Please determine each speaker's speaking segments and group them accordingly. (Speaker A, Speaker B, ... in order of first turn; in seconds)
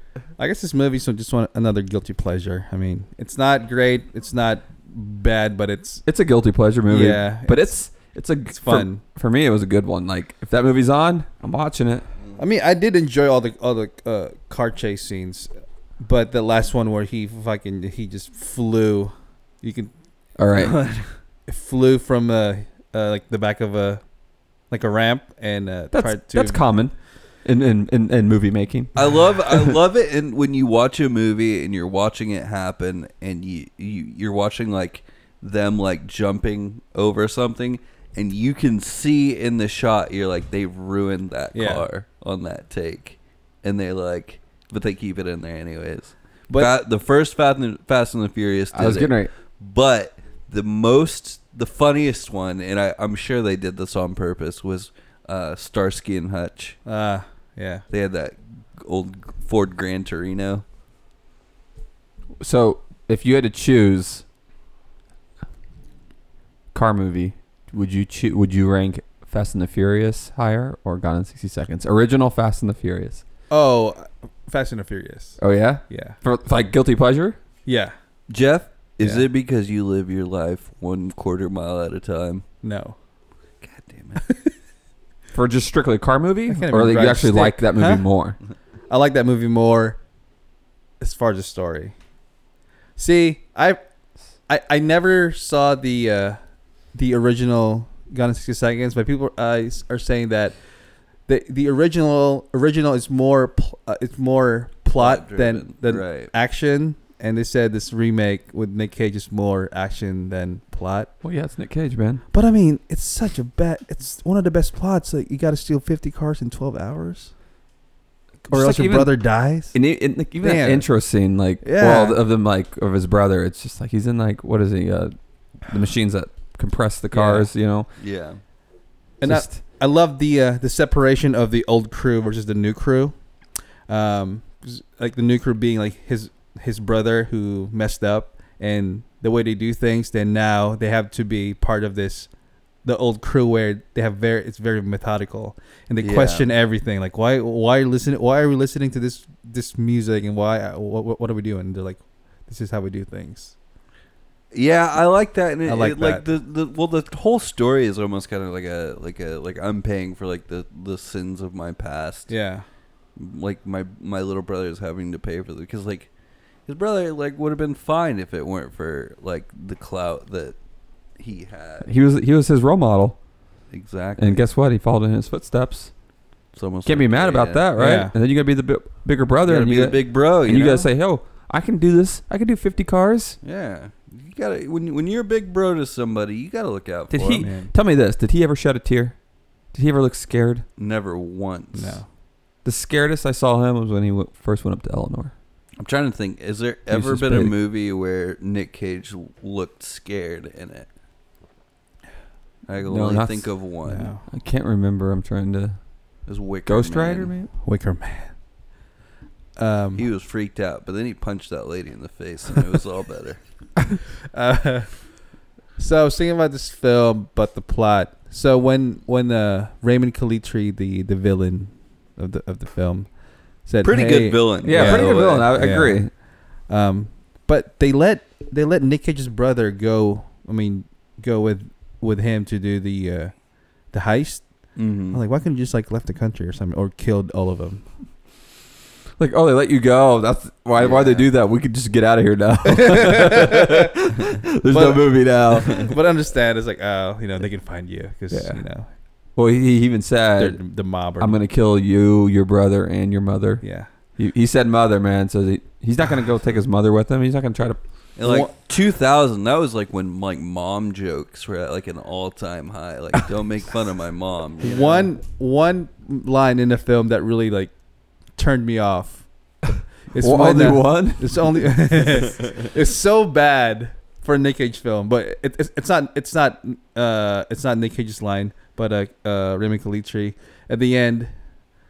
Speaker A: 0.4-6.0, 6.9-7.7, 8.5-9.0, 12.4-19.9, 21.5-24.0, 24.7-26.6, 41.5-41.9, 56.9-57.8, 73.5-75.4, 75.9-76.2, 77.7-77.9, 82.6-83.0, 84.2-84.5, 86.5-88.1, 88.9-90.0, 91.0-91.9, 93.0-93.8, 94.5-96.4, 96.9-100.6, 101.3-111.1, 112.3-117.3, 118.5-119.8, 120.4-120.9, 121.6-122.2, 127.1-127.5, 129.2-133.2, 133.9-142.3, 142.8-153.6, 155.7-156.2, 162.3-162.6, 177.8-178.1, 187.4-187.7, 191.7-192.1, 203.9-204.2, 207.6-208.3, 209.6-210.1, 214.3-215.1, 215.8-233.4, 233.9-237.8, 240.8-241.2, 242.7-243.9, 244.7-248.9, 250.4-251.4, 253.6-253.9, 258.2-258.5, 264.6-267.7, 268.3-269.3, 270.1-281.4
Speaker B: 6.1-12.1, 20.4-20.8, 25.9-29.8, 48.7-49.3, 62.4-64.2, 66.7-73.2, 75.4-77.4, 85.3-88.4, 111.2-112.2, 118.5-127.9, 129.2-129.6, 171.8-173.2, 174.2-175.9, 176.8-183.4, 187.1-189.2, 189.7-190.7, 192.7-195.3, 196.9-197.5, 202.9-203.5, 204.2-205.8, 206.7-207.5, 224.6-226.1, 239.2-246.0, 248.3-248.6, 249.4-250.6, 251.2-253.6, 254.2-257.8, 270.2-271.6
Speaker C: 20.5-21.1, 29.0-56.8, 57.9-60.6, 78.3-82.4, 83.6-84.2, 105.0-106.3, 128.0-128.4, 146.0-146.5, 154.5-162.3, 163.2-166.1, 166.7-170.6, 171.2-171.9, 173.7-174.4, 176.5-177.7, 179.5-180.9, 183.4-187.5, 190.8-192.0, 195.8-200.9, 202.7-204.1, 206.3-207.3, 210.0-213.4, 223.8-225.5, 234.8-235.2, 258.2-265.1